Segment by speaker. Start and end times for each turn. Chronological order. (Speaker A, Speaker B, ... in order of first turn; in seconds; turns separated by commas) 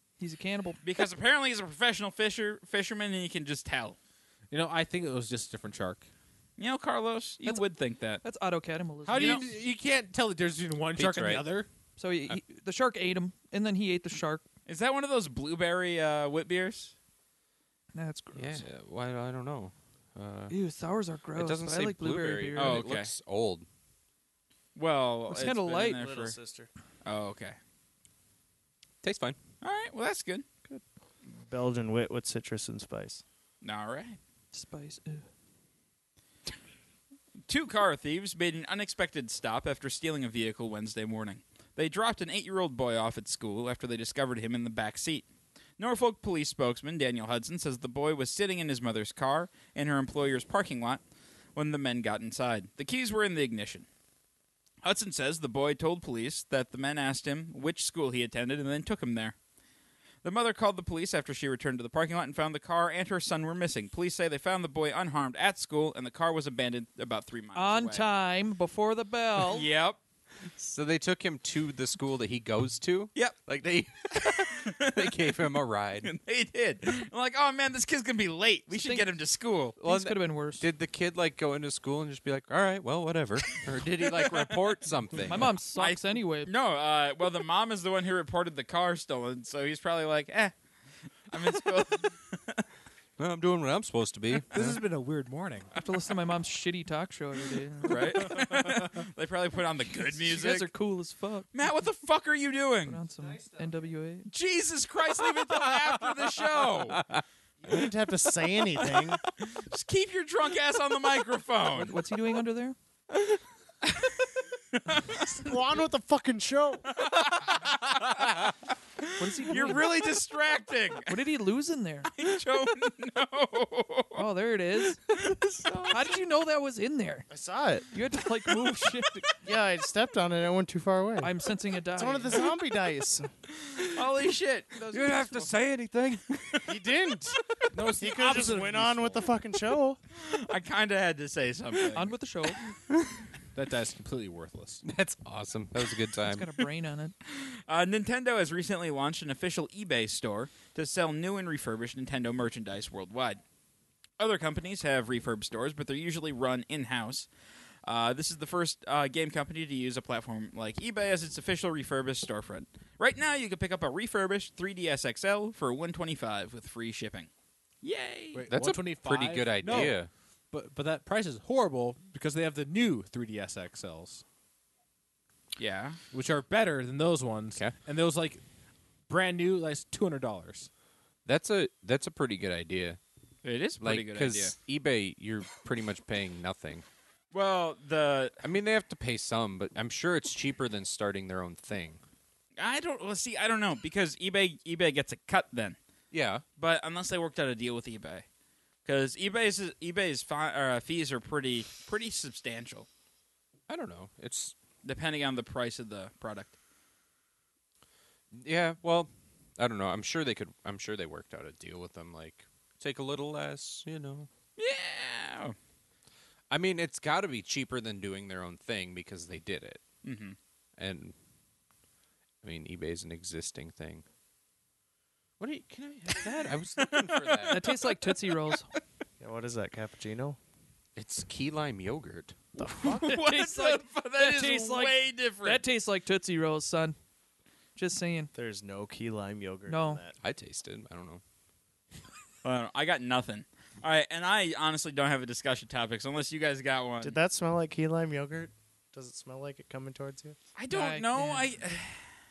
Speaker A: 0.2-0.8, Speaker B: 0.8-4.0, Speaker C: 4.5-6.0, Speaker B: 6.6-8.2, Speaker A: 8.2-9.5, Speaker C: 9.0-11.7, Speaker B: 9.1-9.4, Speaker D: 11.0-11.4, Speaker A: 12.0-14.4, Speaker B: 14.7-16.9, Speaker A: 17.9-18.6, Speaker D: 18.3-20.5, Speaker A: 20.5-22.9, Speaker D: 21.3-23.6, Speaker B: 22.5-23.1, Speaker B: 24.7-26.3, Speaker A: 25.3-26.0, Speaker E: 25.9-26.7, Speaker B: 27.0-27.6, Speaker D: 29.0-29.4, Speaker B: 29.6-30.4, Speaker E: 31.3-33.2, Speaker B: 33.6-34.2, Speaker A: 34.5-35.2, Speaker B: 37.5-45.2, Speaker B: 45.8-51.0, Speaker B: 51.5-53.9, Speaker B: 54.8-59.3, Speaker B: 60.2-68.0, Speaker A: 67.5-69.7, Speaker B: 69.4-70.0, Speaker D: 70.5-76.1, Speaker B: 74.1-75.3, Speaker B: 76.0-79.8, Speaker A: 78.7-79.1, Speaker A: 79.8-80.7, Speaker D: 79.8-85.5, Speaker B: 84.0-84.7, Speaker A: 85.2-86.5, Speaker B: 85.7-90.5, Speaker B: 91.3-92.6, Speaker D: 93.2-94.8, Speaker C: 94.5-95.7, Speaker A: 95.8-98.5, Speaker B: 97.8-100.7, Speaker A: 100.2-101.5, Speaker B: 101.5-103.0, Speaker A: 102.9-104.3, Speaker B: 104.3-107.0, Speaker E: 107.6-109.2, Speaker B: 109.4-112.0, Speaker A: 111.8-112.8, Speaker B: 113.9-114.2, Speaker B: 114.7-115.2, Speaker E: 115.1-116.9, Speaker B: 116.9-121.2, Speaker A: 119.2-119.9, Speaker A: 121.0-122.1, Speaker B: 122.1-124.2, Speaker A: 124.1-125.3, Speaker B: 125.1-126.2, Speaker A: 125.9-127.3, Speaker E: 127.3-127.9, Speaker A: 127.9-129.3, Speaker E: 129.4-131.3, Speaker A: 131.2-132.5, Speaker E: 131.9-133.3, Speaker B: 133.8-135.5, Speaker D: 134.9-136.6, Speaker E: 136.7-137.4, Speaker C: 137.7-139.3, Speaker E: 138.0-140.0, Speaker B: 140.1-142.1, Speaker A: 141.9-142.7, Speaker C: 143.5-144.8, Speaker D: 144.8-146.5, Speaker A: 146.2-147.1, Speaker B: 147.3-153.4, Speaker B: 154.2-157.3, Speaker B: 157.8-167.3, Speaker B: 167.8-168.4, Speaker C: 168.3-170.0, Speaker D: 168.5-170.1, Speaker C: 170.5-174.2, Speaker B: 175.6-176.0, Speaker C: 176.1-178.4, Speaker C: 179.1-180.7, Speaker D: 181.2-183.0, Speaker B: 183.4-184.6, Speaker D: 183.8-186.8, Speaker B: 187.3-188.4, Speaker D: 188.4-192.0, Speaker B: 192.6-195.8, Speaker D: 196.1-196.4, Speaker B: 196.6-198.2, Speaker B: 198.8-202.9, Speaker D: 203.7-204.5, Speaker B: 204.8-206.5, Speaker D: 208.3-214.3, Speaker B: 214.6-215.5, Speaker D: 216.5-219.8, Speaker B: 220.0-220.4, Speaker D: 220.8-221.1, Speaker D: 222.4-224.0, Speaker D: 225.4-227.8, Speaker B: 226.7-227.6, Speaker A: 227.5-228.7, Speaker E: 229.2-230.4, Speaker D: 230.9-232.4, Speaker E: 232.6-233.2, Speaker A: 232.8-236.9, Speaker B: 233.0-235.6, Speaker A: 237.8-238.3, Speaker E: 238.3-240.2, Speaker A: 239.7-240.0, Speaker D: 240.2-241.2, Speaker B: 242.4-247.2, Speaker E: 247.0-250.4, Speaker B: 250.6-252.0, Speaker A: 250.7-251.5